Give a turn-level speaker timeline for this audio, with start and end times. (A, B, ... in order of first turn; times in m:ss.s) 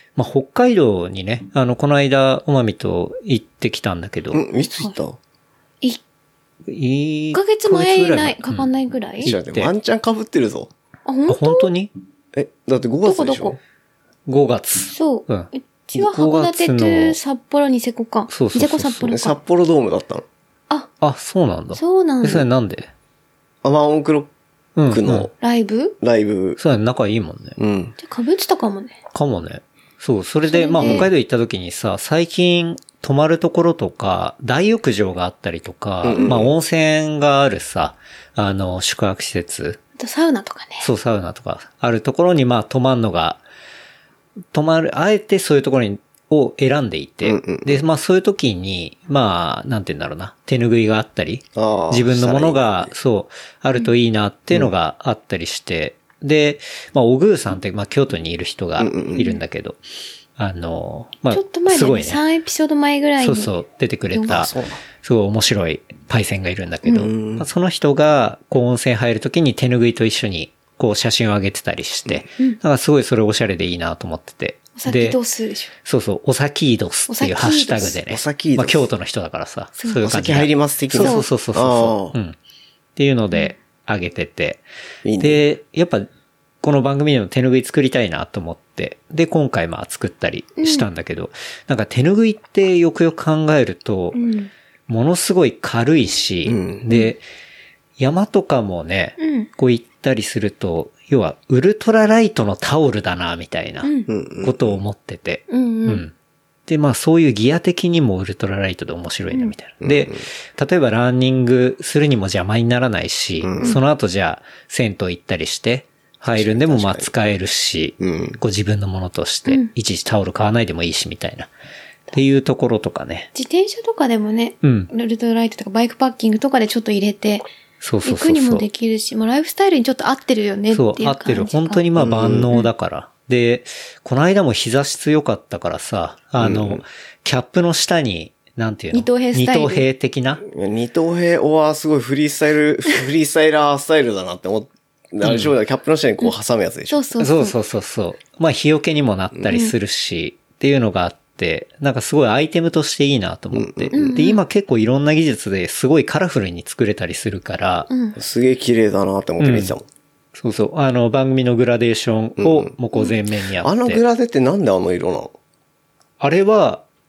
0:00.2-0:04.4 A
0:04.3-0:05.2 B
0:06.7-0:08.7 A
0:07.3-0:09.3 C
0:09.2-0:09.7 A
0:09.2-0:10.7 B
0:11.0-0:11.7 C
0:11.3-0:11.9 A
0:12.3-0:13.6 B
0:13.0-0:13.6 C
0:14.3-0:17.2 A
0:14.9-0:19.4 C
0:18.3-0:19.2 A
0:19.1-0:20.2 B
0:21.0-0:22.9 A
0:21.7-0:22.5 C
0:23.6-0:24.3 B
0:24.8-0:25.3 A
0:24.9-0:25.3 B
0:25.4-0:26.0 C
0:26.0-0:26.6 B
0:26.6-0:27.6 A
0:27.6-0:28.0 B
0:28.0-0:29.0 C
0:29.1-0:39.8 A
0:30.5-0:31.1 C
0:30.8-0:31.1 B
0:36.0-0:36.5 B
0:40.0-0:40.9 C
0:40.8-0:43.4 A
0:44.5-0:59.8 A
0:47.2-0:47.8 B
0:51.6-0:52.9 B
0:58.8-0:59.3 B
1:00.4-1:02.2 A
1:01.3-1:03.5 C
1:03.2-1:15.2 A
1:04.1-1:04.4 C
1:04.3-1:04.8 B
1:07.0-1:07.5 B
1:14.8-1:15.7 C
1:15.8-1:22.4 A
1:17.1-1:18.0 C
1:18.0-1:18.9 B
1:19.8-1:20.1 C
1:20.0-1:22.2 B
1:21.0-1:21.3 C
1:23.0-1:24.6 A
1:25.0-1:25.4 B
1:25.2-1:26.1 A
1:26.6-1:34.2 A
1:30.6-1:30.9 C
1:34.1-1:34.5 C
1:34.9-1:37.2 A
1:36.5-1:36.8 B
1:38.0-1:46.1 A
1:39.2-1:39.5 C
1:43.8-1:44.1 C
1:44.1-1:44.8 B
1:45.5-1:46.0 C
1:46.7-2:01.5 A
1:49.8-1:50.2 B
1:53.4-1:53.7 B
1:56.3-1:57.1 B
1:58.0-1:58.4 B
2:02.1-2:03.3 A
2:03.3-2:07.5 C
2:04.6-2:04.9 A
2:07.8-2:08.7 A
2:08.0-2:11.8 C
2:10.7-2:20.4 A
2:12.0-2:12.5 B
2:16.4-2:16.8 B
2:18.9-2:19.8 C
2:20.4-2:27.0 B
2:25.2-2:25.5 A
2:26.9-2:27.6 C
2:27.2-2:37.9 A
2:29.5-2:29.7 C
2:33.5-2:34.2 B
2:33.9-2:34.4 C
2:37.9-2:38.2 C
2:38.2-2:39.8 B
2:39.4-2:39.8 A
2:40.4-2:44.0 A
2:42.4-2:42.7 B
2:43.6-2:45.3 B
2:46.2-2:46.8 A